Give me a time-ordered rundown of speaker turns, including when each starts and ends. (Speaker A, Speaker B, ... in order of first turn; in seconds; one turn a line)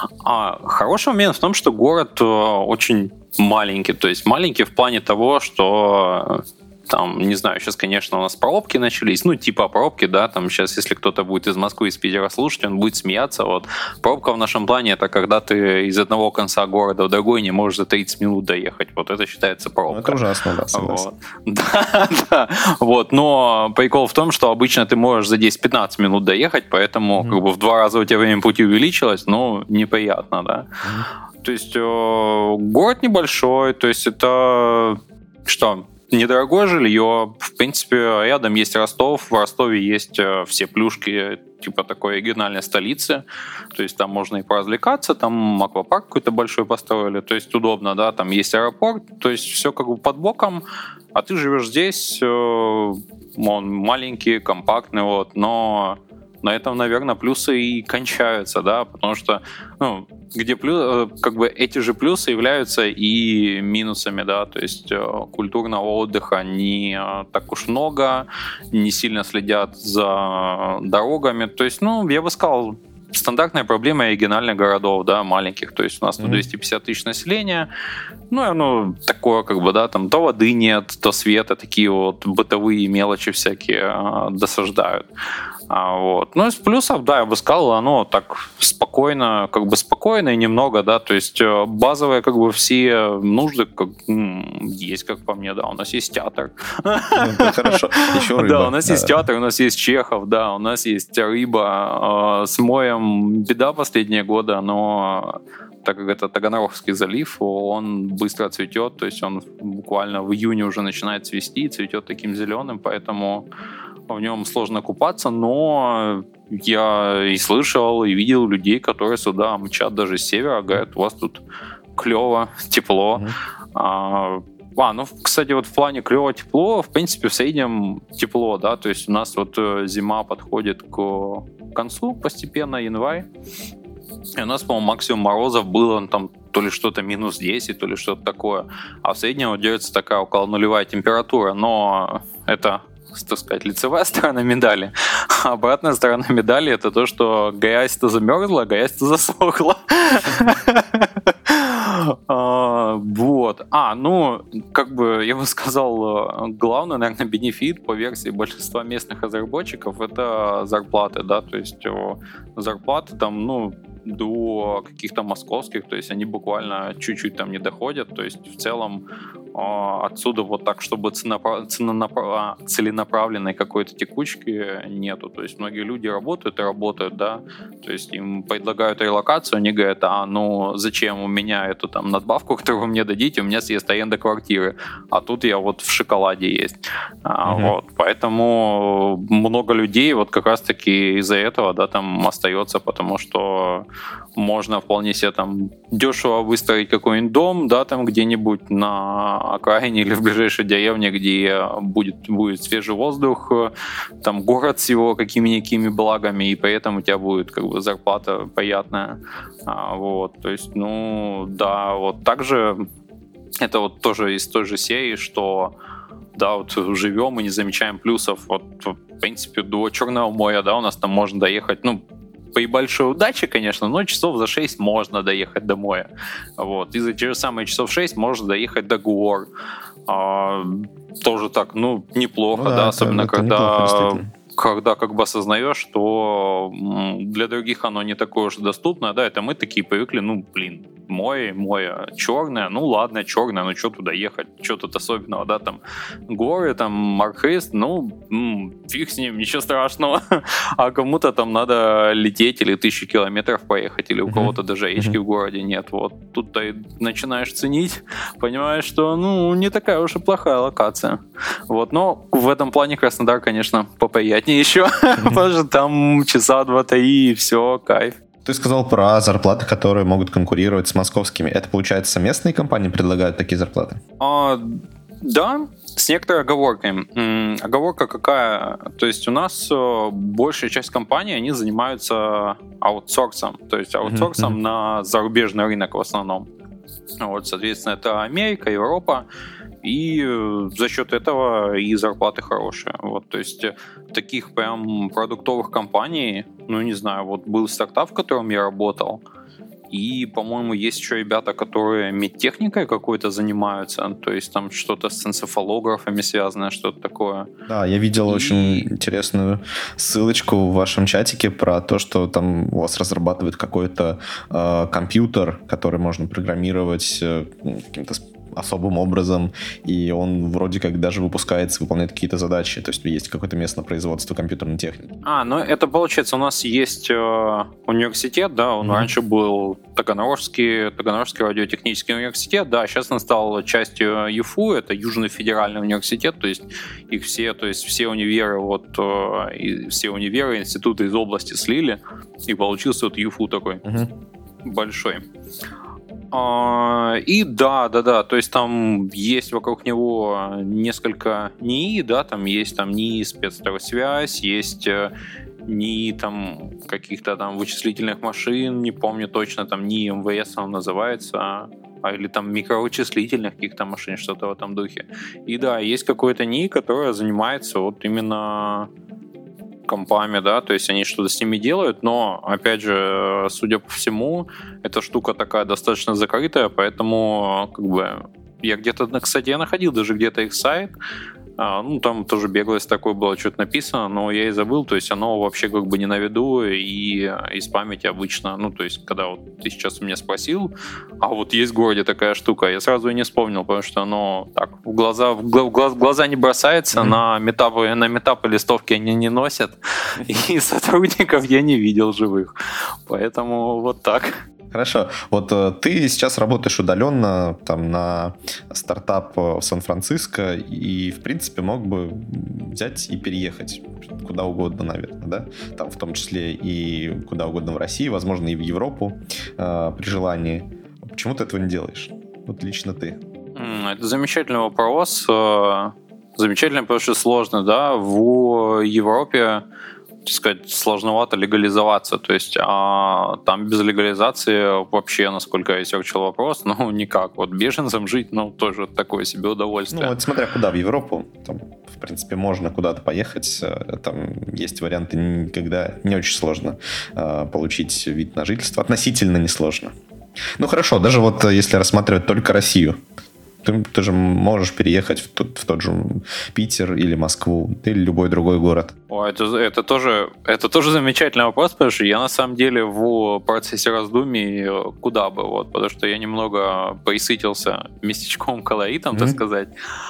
Speaker A: 0.2-20.2
Speaker B: 19.9-21.1
Speaker A: 20.7-30.7
Speaker B: 30.8-31.1
Speaker A: 31.4-50.6
Speaker A: 51.1-77.7
Speaker A: 78.3-85.1
Speaker A: 85.7-113.5
Speaker B: 97.2-99.2
Speaker A: 114.1-121.4
Speaker A: 122.0-133.3
Speaker A: 134.4-193.9
Speaker B: 187.5-187.8
Speaker A: 194.4-212.9
Speaker A: 213.6-215.7
Speaker A: 216.3-222.0
Speaker A: 222.6-229.5
Speaker A: 230.1-268.2
Speaker B: 232.5-234.3
Speaker B: 254.3-255.2
Speaker B: 268.4-274.0
Speaker A: 274.2-286.5
Speaker B: 284.1-284.6
Speaker A: 287.2-289.2
Speaker A: 289.8-299.2
Speaker A: 299.9-307.5
Speaker B: 307.7-325.1
Speaker A: 308.3-308.9
Speaker A: 325.2-343.8
Speaker B: 328.8-329.1
Speaker B: 343.8-344.1
Speaker A: 344.6-345.2
Speaker A: 346.3-355.1
Speaker A: 355.7-368.9
Speaker A: 369.9-380.9
Speaker A: 381.6-402.5
Speaker A: 403.1-404.4
Speaker B: 404.7-423.2
Speaker A: 423.6-429.6
Speaker A: 430.2-440.2
Speaker B: 439.9-449.9
Speaker B: 450.6-453.0
Speaker B: 453.6-458.9
Speaker A: 459.1-469.7